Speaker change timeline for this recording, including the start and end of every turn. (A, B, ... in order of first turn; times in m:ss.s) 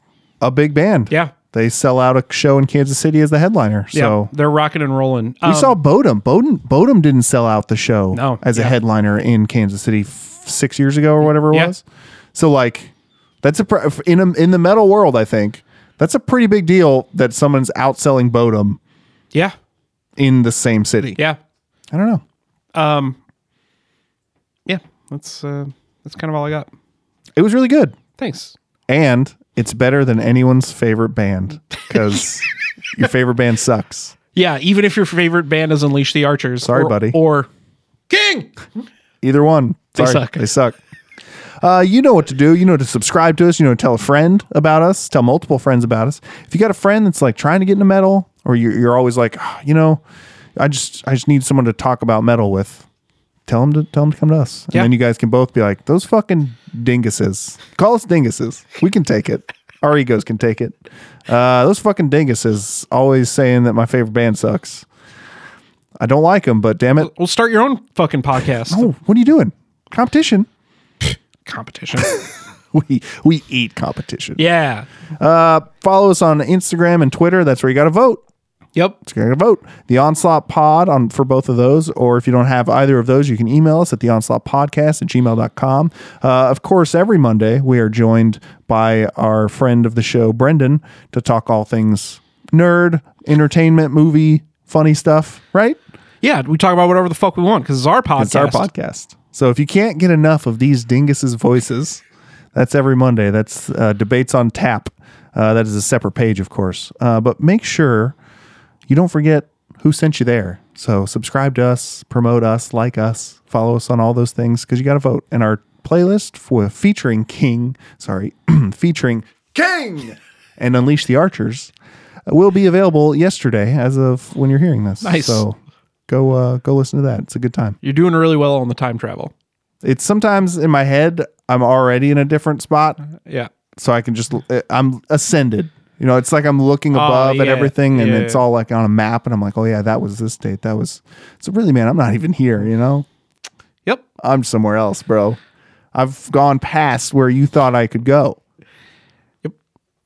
0:00.4-0:04.3 A
0:03.9-0:05.8 B
0:05.4-0:11.8 A
0:08.1-0:08.8 B
0:11.3-0:11.7 B
0:12.3-0:18.8 A
0:20.2-0:21.2 A
0:21.9-0:22.2 A
0:22.7-0:23.2 B
0:24.6-0:26.7 B
0:27.4-0:28.0 A
0:28.2-0:28.5 B
0:28.9-0:34.1 A
0:34.3-0:37.5 B
0:36.6-0:37.2 A
0:38.1-0:38.5 B
0:39.2-0:40.8 A
0:40.0-0:40.4 B
0:41.6-0:50.0 A
0:50.6-0:52.8 A
0:53.5-1:04.8 A
1:06.0-1:07.1 A
1:07.0-1:08.9 B
1:08.7-1:10.5 A
1:11.0-1:12.2 B
1:12.0-1:14.4 A
1:14.4-1:14.8 B
1:15.2-1:18.2 A
1:19.0-1:35.8 A
1:36.2-1:38.7 B
1:38.2-1:42.0 A
1:42.5-1:48.2 A
1:48.9-2:01.7 A
2:02.3-2:05.6 A
2:05.0-2:05.4 B
2:06.1-2:07.8 A
2:07.8-2:09.3 B
2:09.8-2:13.0 A
2:13.2-2:13.5 B
2:13.8-2:23.0 A
2:16.9-2:18.4 B
2:24.2-2:25.4 A
2:25.9-2:28.4 A